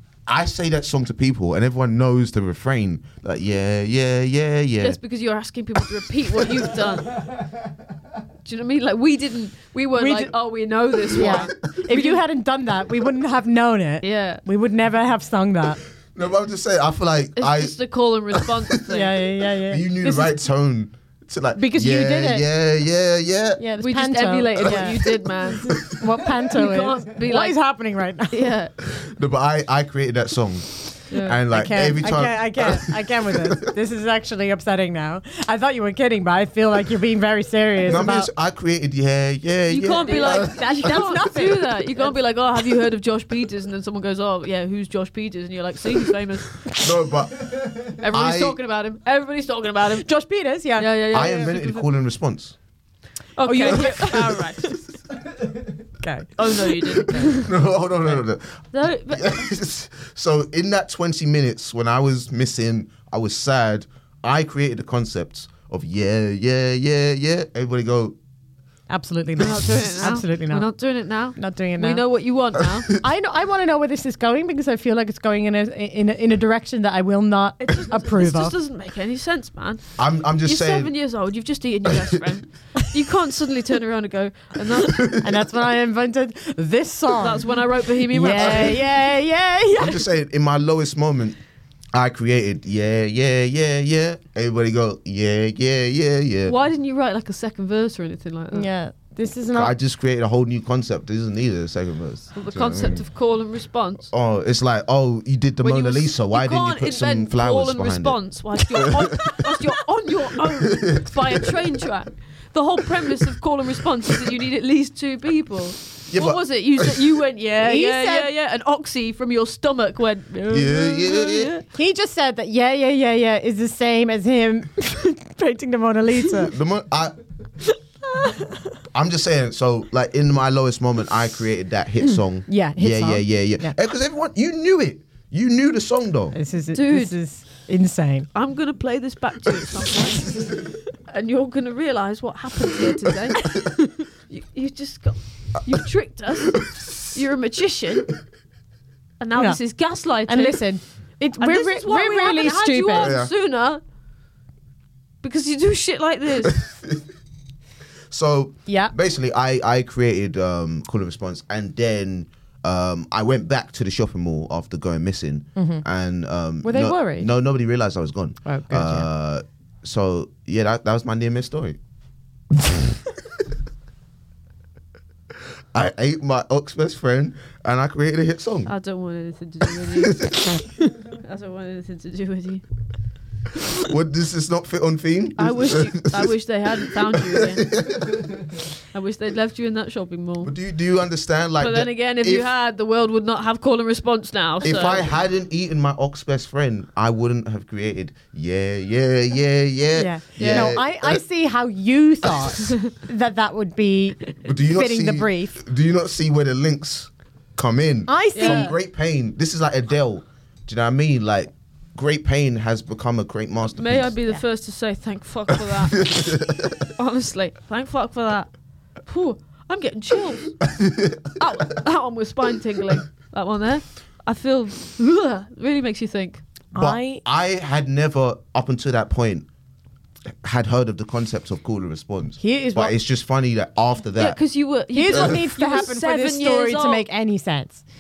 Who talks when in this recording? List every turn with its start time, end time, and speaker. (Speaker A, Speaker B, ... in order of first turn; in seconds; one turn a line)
Speaker A: 0.3-5.0
Speaker B: 4.8-7.2
Speaker B: 8.4-12.2
Speaker C: 9.9-10.3
Speaker C: 11.1-15.8
Speaker B: 14.0-14.4
Speaker A: 16.1-17.8
Speaker B: 17.4-19.1
Speaker C: 18.9-20.3
Speaker A: 19.6-23.6
Speaker C: 21.5-22.5
Speaker C: 23.6-25.0
Speaker B: 23.8-25.9
Speaker A: 24.6-25.9
Speaker C: 25.7-28.5
Speaker B: 26.5-27.6
Speaker B: 28.3-28.7
Speaker A: 28.8-33.7
Speaker B: 31.1-31.4
Speaker C: 31.5-38.3
Speaker A: 37.8-40.9
Speaker B: 39.7-46.6
Speaker C: 40.0-42.1
Speaker A: 46.7-48.6
Speaker B: 47.9-50.1
Speaker C: 50.0-51.1
Speaker B: 50.8-51.9
Speaker A: 51.1-52.5
Speaker B: 53.4-54.7
Speaker C: 53.4-54.8
Speaker C: 56.0-57.4
Speaker B: 56.4-57.5
Speaker A: 57.2-68.2
Speaker B: 58.7-59.5
Speaker C: 68.9-70.7
Speaker B: 69.4-72.9
Speaker C: 71.3-72.0
Speaker C: 73.0-78.5
Speaker B: 77.6-85.0
Speaker A: 80.0-80.9
Speaker A: 84.9-85.3
Speaker C: 85.2-90.0
Speaker B: 87.2-88.8
Speaker A: 88.2-89.0
Speaker A: 89.8-91.4
Speaker A: 91.9-96.5
Speaker B: 96.5-98.7
Speaker C: 98.5-99.7
Speaker A: 99.5-103.0
Speaker B: 102.3-104.1
Speaker A: 104.1-109.5
Speaker B: 105.6-121.6
Speaker A: 110.8-111.4
Speaker A: 116.1-117.0
Speaker C: 117.6-118.3
Speaker A: 120.5-121.5
Speaker C: 121.7-126.6
Speaker A: 126.5-127.2
Speaker C: 128.1-128.6
Speaker A: 128.9-136.3
Speaker C: 132.0-133.7
Speaker C: 136.3-138.3
Speaker B: 136.7-137.2
Speaker B: 138.3-143.6
Speaker B: 144.3-148.1
Speaker B: 149.2-150.7
Speaker C: 149.3-153.2
Speaker B: 151.4-153.8
Speaker A: 152.9-153.3
Speaker B: 155.2-156.6
Speaker A: 158.1-171.8
Speaker C: 158.7-158.9
Speaker C: 165.6-165.8
Speaker C: 166.6-167.3
Speaker C: 168.4-169.1
Speaker A: 175.7-178.7
Speaker B: 178.7-180.2
Speaker A: 180.0-180.6
Speaker B: 181.1-182.6
Speaker A: 183.8-186.3
Speaker B: 185.4-187.7
Speaker A: 187.1-188.2
Speaker B: 188.9-190.5
Speaker A: 190.4-192.5
Speaker B: 191.6-195.1
Speaker A: 194.6-201.2
Speaker C: 199.9-205.6
Speaker B: 200.4-200.7
Speaker A: 204.4-214.1
Speaker C: 208.1-208.7
Speaker B: 208.3-208.7
Speaker B: 213.8-216.1
Speaker A: 215.7-216.7
Speaker B: 216.9-218.5
Speaker B: 219.0-220.6
Speaker A: 220.8-221.2
Speaker B: 221.4-226.4
Speaker C: 226.7-227.2
Speaker A: 226.7-229.5
Speaker A: 230.4-234.4
Speaker C: 232.4-232.9
Speaker B: 234.2-237.0
Speaker C: 234.9-237.8
Speaker A: 235.1-235.4